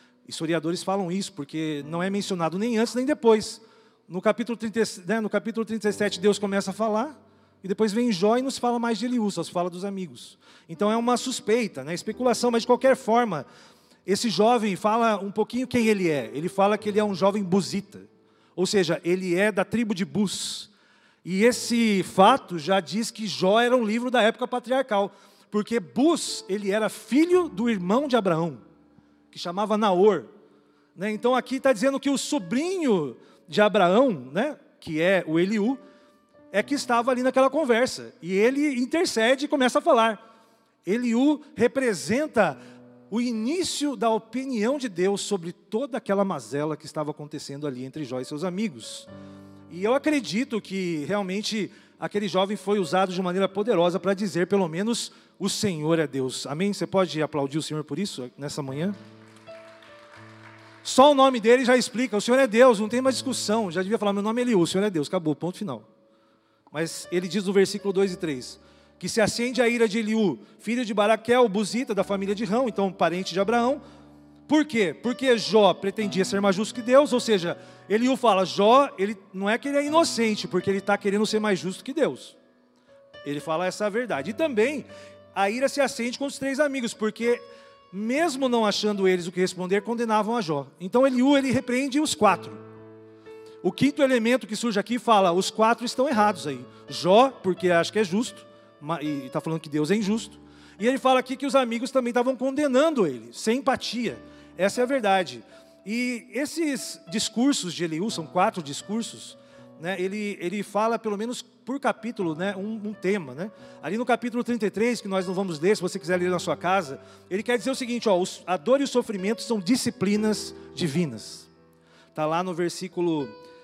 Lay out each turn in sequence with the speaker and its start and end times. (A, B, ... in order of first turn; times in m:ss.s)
0:00.3-0:13.5 A
0:14.1-0:20.7 A
0:21.2-0:28.6 A
0:29.3-0:30.3 A
0:31.0-0:35.8 A
0:36.5-0:40.2 A
0:40.9-0:42.6 A
0:43.1-0:49.1 A
0:49.7-0:59.0 A
1:00.8-1:05.9 A
1:06.7-1:13.8 A
1:14.5-1:22.4 A
1:23.2-1:32.6 A
1:33.6-2:01.5 A
2:02.1-2:03.3 A